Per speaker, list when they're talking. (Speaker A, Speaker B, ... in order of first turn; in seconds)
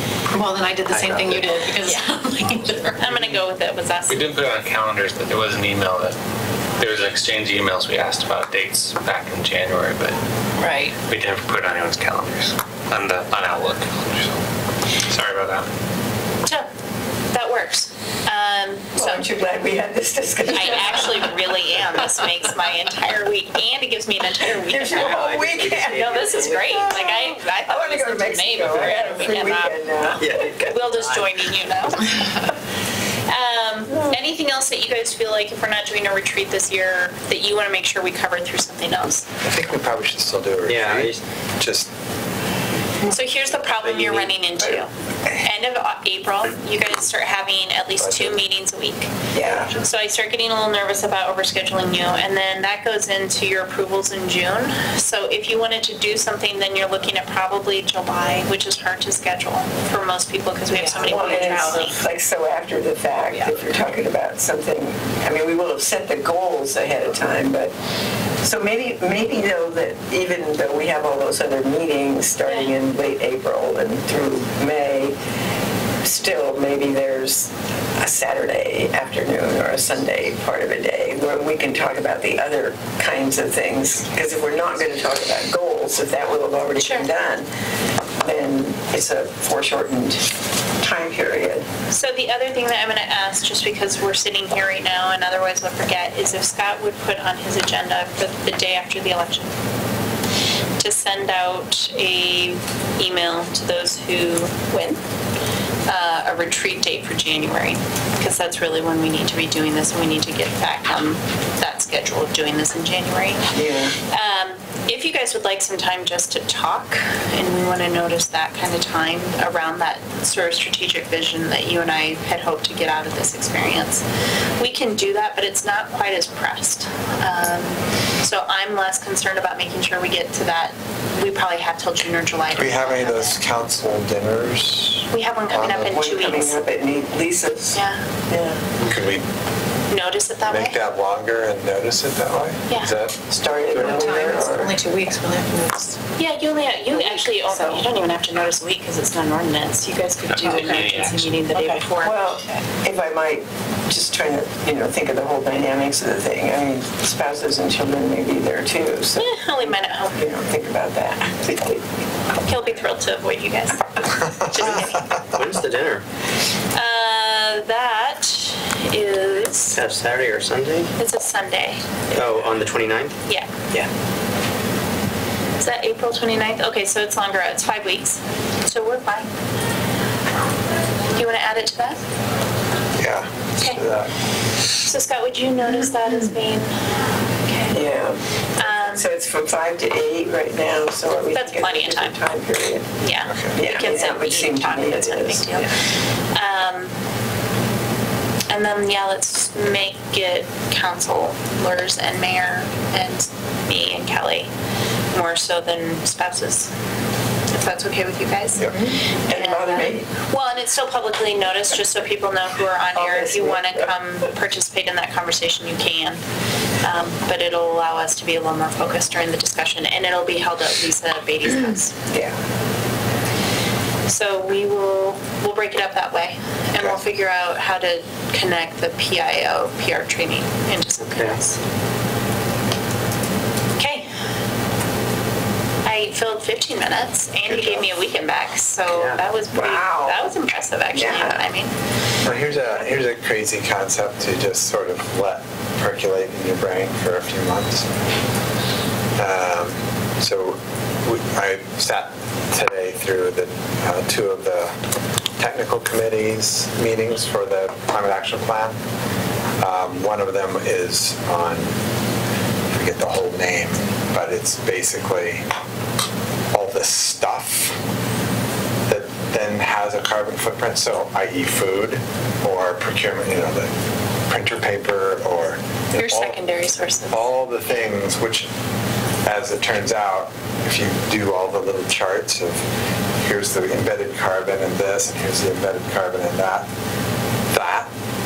Speaker A: 0.3-3.1, 10.6-11.0, 60.7-61.8, 143.7-146.0, 146.9-147.8, 151.5-151.8
Speaker B: 0.9-2.0, 24.9-26.9, 30.2-31.3, 40.6-41.2, 43.8-44.4, 165.3-166.0, 169.7-170.9, 172.1-173.1, 231.1-231.4, 238.9-239.2
Speaker C: 3.0-4.3, 17.3-19.3, 20.5-25.2, 25.9-32.5, 33.2-39.3, 43.0-62.0, 86.8-87.1, 91.9-99.5, 100.8-105.0, 105.9-113.5, 114.0-124.0, 124.6-133.4, 135.1-136.6, 137.7-138.0, 139.9-140.8, 146.2-152.2, 159.2-160.2, 162.4-165.2, 166.7-169.8, 171.0-171.8, 175.6-179.3, 181.1-182.0, 184.8-186.7, 188.6-189.1, 191.3-192.2, 193.0-195.7, 196.3-196.9, 198.5-204.5, 205.1-206.7, 207.5-216.2, 216.8-221.9, 224.1-231.6, 233.8-234.1, 235.8-241.7, 275.9-277.3
Speaker D: 4.1-6.2, 6.8-10.2, 11.0-14.4, 15.1-15.7, 150.3-151.3
Speaker E: 18.9-21.4, 24.6-30.5, 49.3-49.7, 61.0-67.7, 68.4-75.1, 76.0-87.5, 88.2-90.2, 90.8-91.7, 113.5-113.9, 135.8-138.7, 143.3-144.7, 152.0-161.7, 187.7-188.2, 188.7-192.9, 193.5-195.6, 208.6-210.1, 212.9-213.9, 239.5-240.3, 240.9-241.4
Speaker F: 39.4-41.9, 48.0-48.4, 132.5-135.9, 138.8-139.2, 140.5-143.2, 164.4-165.3, 183.0-184.1, 193.2-193.6, 237.4-237.9, 242.2-247.9, 249.2-254.7, 255.4-258.8, 259.6-261.7, 262.7-265.4, 266.5-267.8, 268.9-273.7, 274.3-276.4, 277.1-278.5, 279.2-282.6, 283.2-286.7, 287.5-287.9